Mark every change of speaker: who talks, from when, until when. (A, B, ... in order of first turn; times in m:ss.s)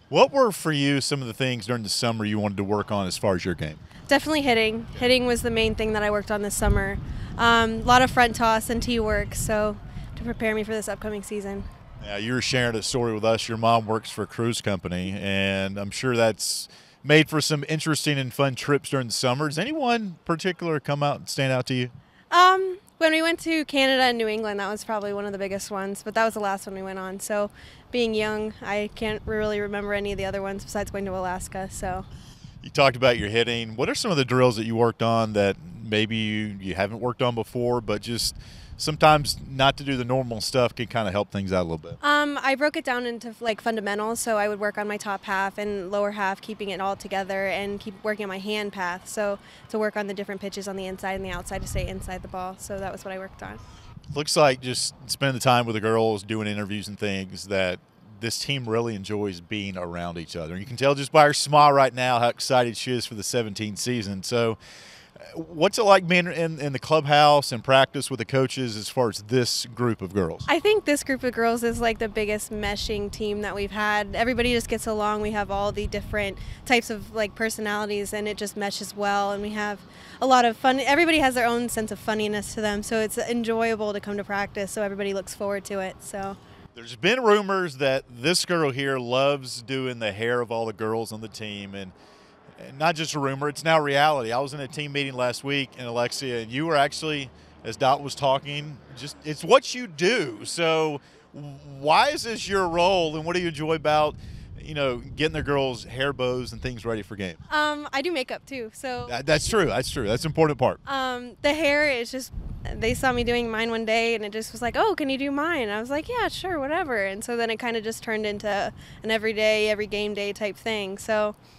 0:00.1-0:03.8 A
0:04.1-0:11.7 B
0:12.0-0:21.9 A
0:22.3-0:32.1 B
0:32.6-0:42.0 A
0:42.0-0:53.6 B
0:54.1-1:04.6 A
1:05.2-1:10.4 A
1:10.5-1:26.4 B
1:26.7-1:31.9 A
1:32.6-1:47.4 A
1:47.5-1:49.1 B
1:49.1-1:50.8 A
1:50.8-2:01.4 B